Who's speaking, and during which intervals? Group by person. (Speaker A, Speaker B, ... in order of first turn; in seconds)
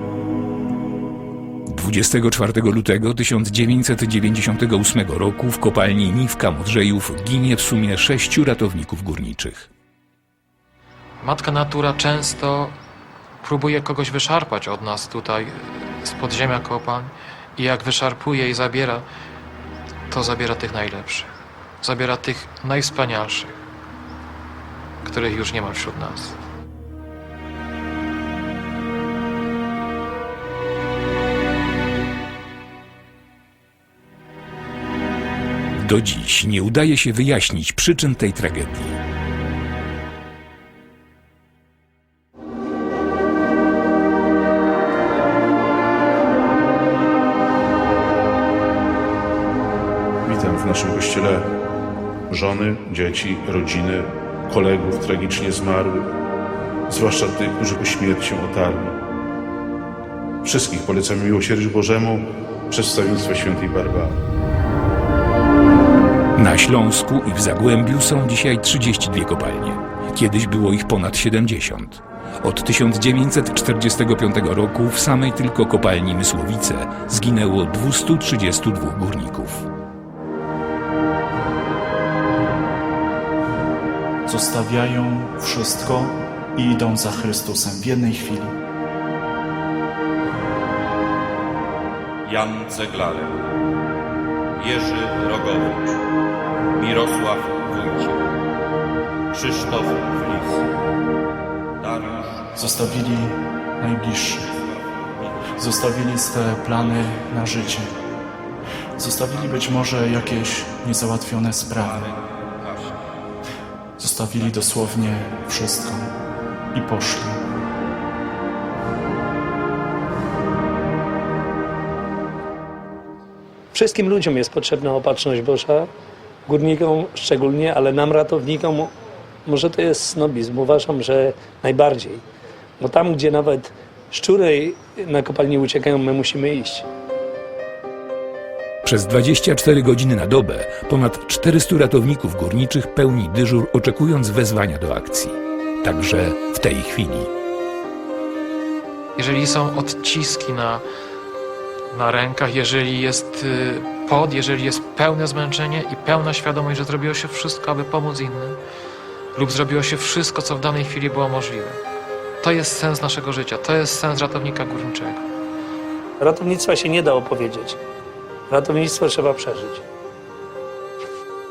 Speaker A: 1.7-9.7, 35.8-39.0, 66.4-79.7, 138.8-147.3
Speaker B: 11.2-12.8, 13.4-19.1, 20.1-23.6, 25.0-26.4, 149.2-150.8, 151.9-158.6, 159.3-161.8, 162.4-165.2
Speaker C: 50.3-51.5, 52.3-56.1, 56.9-59.0, 60.4-64.2
Speaker D: 84.3-88.6, 102.6-104.5, 105.6-107.9, 109.0-112.1, 114.0-116.1, 116.7-117.4
Speaker E: 92.3-93.3, 94.6-95.9, 96.8-98.2, 99.3-100.6
Speaker F: 123.7-125.9, 126.5-128.9, 129.5-132.2, 132.8-136.8, 166.2-167.8, 168.5-169.8